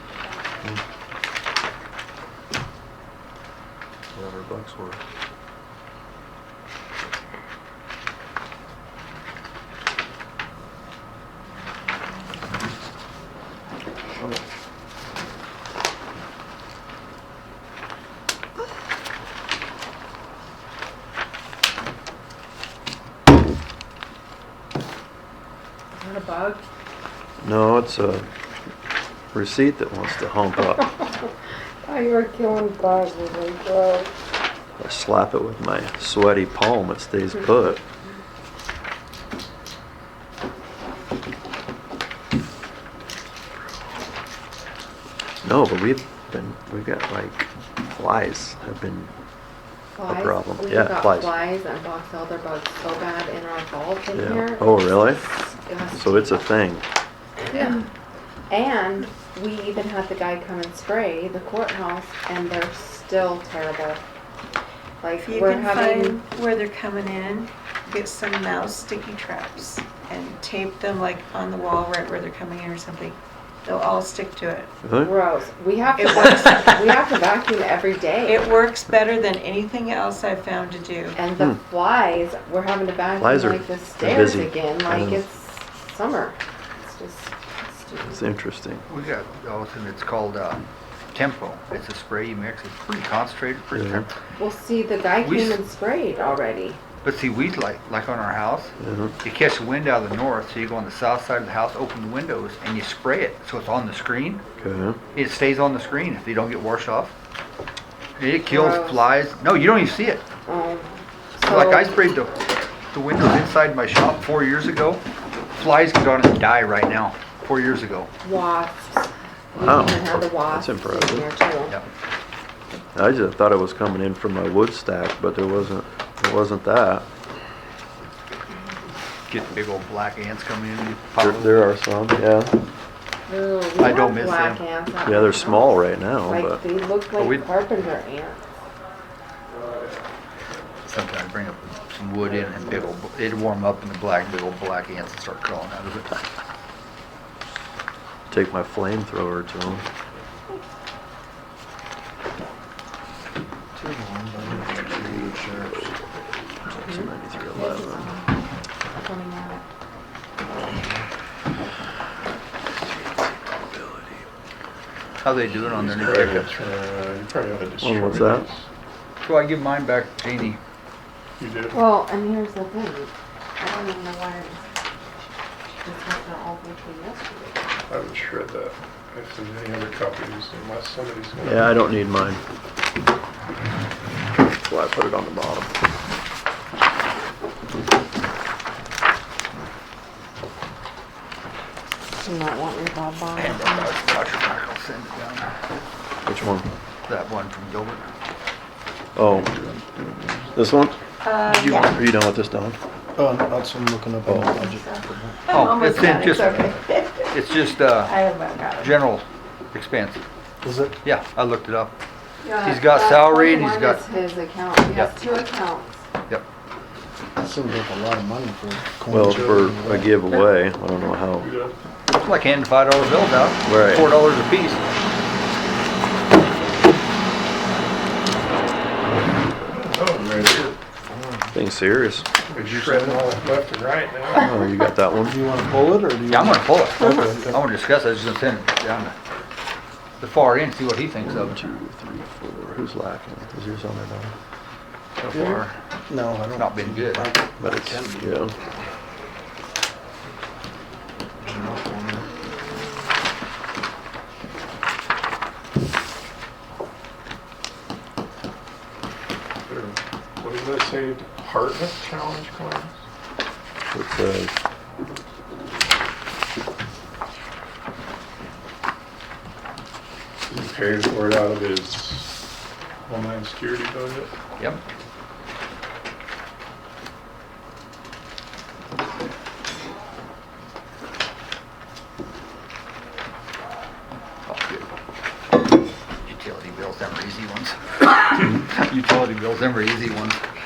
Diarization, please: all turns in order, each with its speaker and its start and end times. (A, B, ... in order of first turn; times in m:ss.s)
0:04.1-0:05.0 A
0:25.9-0:26.6 B
0:27.4-0:28.3 A
0:29.3-0:30.8 A
0:30.7-0:31.3 B
0:31.8-0:34.1 B
0:34.8-0:37.8 A
0:45.4-0:49.1 A
0:49.9-0:56.4 B
0:50.0-0:51.3 A
0:54.1-0:55.2 A
0:55.9-0:56.9 A
0:57.5-0:57.8 B
0:58.5-1:04.0 B
1:05.0-1:06.2 B
1:05.2-1:14.7 C
1:14.8-1:15.1 A
1:15.0-1:18.4 B
1:16.0-1:16.8 C
1:18.2-1:21.2 C
1:21.1-1:28.2 B
1:23.2-1:25.2 A
1:28.1-1:28.8 A
1:28.9-1:30.6 D
1:31.1-1:34.1 D
1:33.7-1:34.1 A
1:34.3-1:36.8 B
1:35.2-1:35.6 D
1:37.0-1:44.4 D
1:38.8-1:39.2 A
1:44.6-1:45.0 A
1:45.1-1:47.1 D
1:48.2-1:50.2 D
1:48.5-1:49.0 B
1:50.4-1:52.0 B
1:51.4-1:52.3 D
1:52.9-1:55.0 D
1:55.6-1:58.1 D
1:58.2-2:01.8 B
1:59.6-2:01.3 A
2:02.9-2:07.1 A
2:09.3-2:11.7 D
2:11.2-2:12.6 A
2:13.3-2:18.4 B
2:13.8-2:14.6 D
2:15.0-2:16.6 A
2:17.2-2:17.4 D
2:20.8-2:26.2 D
2:28.3-2:29.8 A
2:33.8-2:35.9 E
2:36.7-2:38.1 A
2:36.8-2:38.3 B
2:38.9-2:39.6 B
2:40.5-2:41.0 E
2:42.9-2:44.1 A
2:45.2-2:46.5 D
2:45.7-2:48.6 F
2:47.8-2:48.4 A
2:49.2-2:50.6 D
2:51.4-2:51.8 F
2:51.7-2:54.6 B
2:55.8-2:57.6 B
2:57.9-3:01.8 F
3:01.4-3:02.4 A
3:04.4-3:05.7 A
3:12.1-3:13.9 B
3:13.4-3:15.5 D
3:16.2-3:16.7 A
3:17.1-3:18.1 D
3:19.2-3:22.8 A
3:21.2-3:22.0 C
3:23.2-3:25.4 E
3:25.5-3:26.7 D
3:25.5-3:28.9 C
3:27.3-3:28.1 D
3:28.8-3:30.2 D
3:30.6-3:31.0 E
3:31.0-3:32.0 D
3:32.4-3:36.0 B
3:32.6-3:34.0 D
3:37.4-3:40.2 E
3:39.1-3:41.5 A
3:41.4-3:41.8 F
3:42.1-3:44.8 D
3:43.6-3:44.1 A
3:49.7-3:50.8 F
3:51.1-3:51.5 E
3:51.5-3:52.3 A
3:52.5-3:54.5 F
3:52.5-3:53.4 E
3:54.4-3:55.4 A
3:55.2-3:57.6 E
3:56.3-3:59.2 D
4:00.2-4:01.6 D
4:01.2-4:04.3 A
4:05.2-4:05.8 D
4:05.3-4:08.5 E
4:06.5-4:07.3 D
4:07.6-4:08.5 A
4:11.4-4:12.3 E
4:19.6-4:23.0 F
4:23.9-4:24.5 A
4:30.5-4:32.5 F
4:33.1-4:34.3 F
4:44.4-4:44.9 D
4:46.2-4:50.4 D